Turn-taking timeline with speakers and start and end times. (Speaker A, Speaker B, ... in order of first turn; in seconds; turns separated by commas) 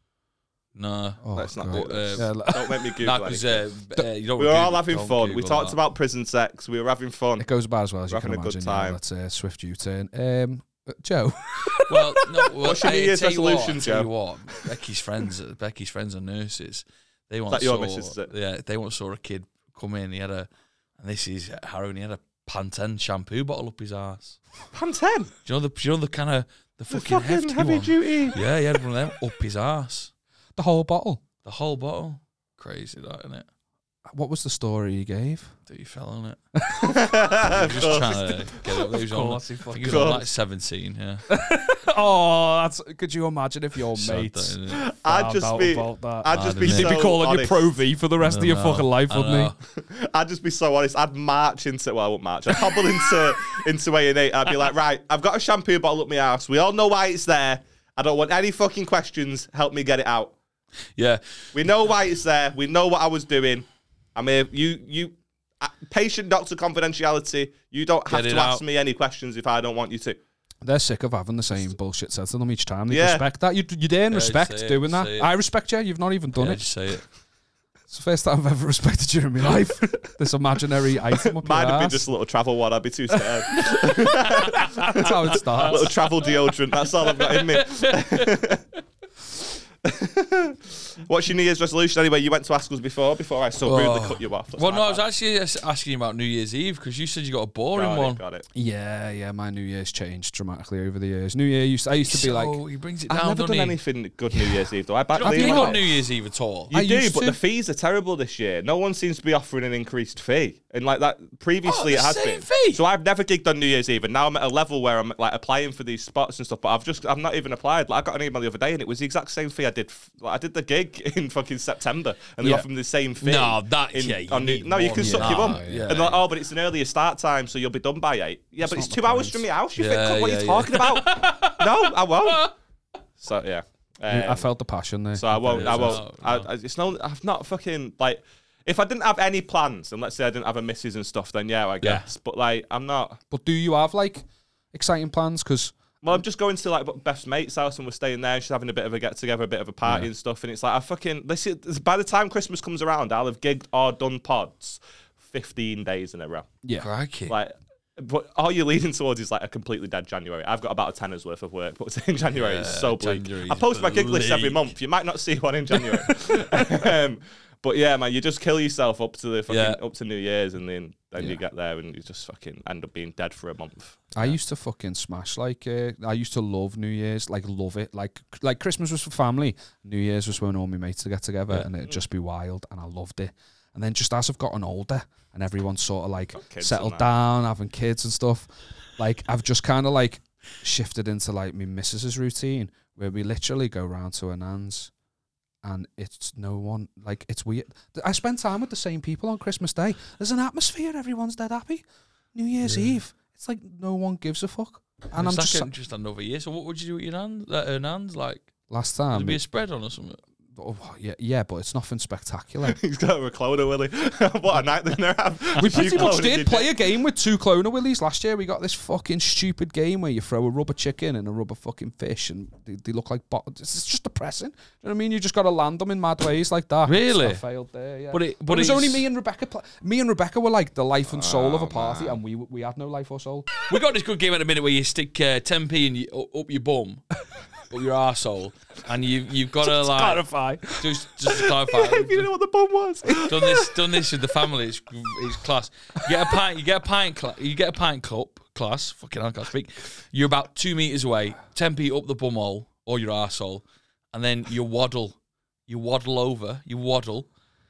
Speaker A: 0.7-2.3, Speaker B: 1.2-2.9, Speaker C: 1.4-3.6, Speaker A: 3.0-5.8, Speaker C: 4.4-7.5, Speaker B: 7.4-12.3, Speaker C: 8.1-9.0, Speaker A: 11.9-24.4, Speaker C: 12.6-14.1, Speaker C: 17.5-18.3, Speaker C: 24.7-25.3, Speaker A: 25.4-30.1, Speaker C: 26.9-28.4, Speaker B: 30.6-31.2, Speaker A: 31.4-33.5, Speaker B: 34.1-35.5, Speaker A: 35.7-36.4, Speaker B: 36.6-36.9, Speaker C: 36.8-38.6, Speaker A: 37.4-41.2, Speaker B: 38.9-40.2, Speaker C: 39.8-40.2, Speaker B: 41.3-49.5, Speaker A: 43.9-44.9, Speaker C: 44.7-47.7, Speaker A: 46.3-47.0, Speaker A: 48.2-49.5, Speaker C: 49.7-60.4, Speaker A: 61.0-61.2, Speaker C: 61.5-70.2, Speaker A: 68.1-68.6, Speaker B: 70.6-76.7, Speaker C: 72.9-73.2, Speaker A: 74.1-75.3, Speaker A: 76.4-77.0, Speaker B: 77.9-82.1, Speaker C: 81.1-88.6, Speaker A: 83.7-86.3, Speaker B: 84.8-85.9, Speaker A: 87.1-88.3, Speaker C: 89.8-95.0, Speaker A: 93.7-98.2, Speaker C: 97.7-98.4, Speaker B: 98.5-102.6, Speaker A: 102.0-103.8, Speaker C: 103.1-105.8, Speaker B: 105.2-105.9, Speaker A: 105.2-106.7, Speaker B: 106.7-107.4, Speaker C: 106.7-132.5, Speaker A: 111.6-112.8, Speaker A: 123.2-126.2, Speaker B: 125.0-126.1, Speaker B: 128.6-129.4, Speaker A: 129.7-132.5, Speaker C: 133.2-134.5, Speaker B: 134.1-136.0, Speaker C: 135.2-143.2, Speaker A: 135.5-136.5, Speaker B: 143.3-145.8, Speaker C: 146.0-156.5, Speaker B: 149.8-150.1, Speaker B: 156.6-156.9, Speaker A: 156.8-157.3, Speaker C: 157.3-174.3, Speaker A: 162.3-164.7, Speaker A: 165.7-166.0, Speaker A: 169.5-169.8, Speaker B: 174.1-194.9, Speaker C: 186.4-187.0, Speaker B: 195.6-205.7, Speaker A: 202.6-202.9, Speaker A: 205.1-208.5, Speaker B: 208.7-209.4, Speaker A: 209.1-210.2, Speaker B: 210.5-212.8, Speaker C: 212.6-216.7, Speaker B: 215.6-233.5, Speaker A: 226.8-227.4, Speaker A: 228.1-229.1, Speaker C: 231.1-232.2, Speaker A: 233.7-237.0, Speaker A: 237.7-240.2, Speaker B: 239.6-241.3, Speaker A: 240.8-242.3, Speaker C: 241.7-243.6, Speaker A: 243.2-257.3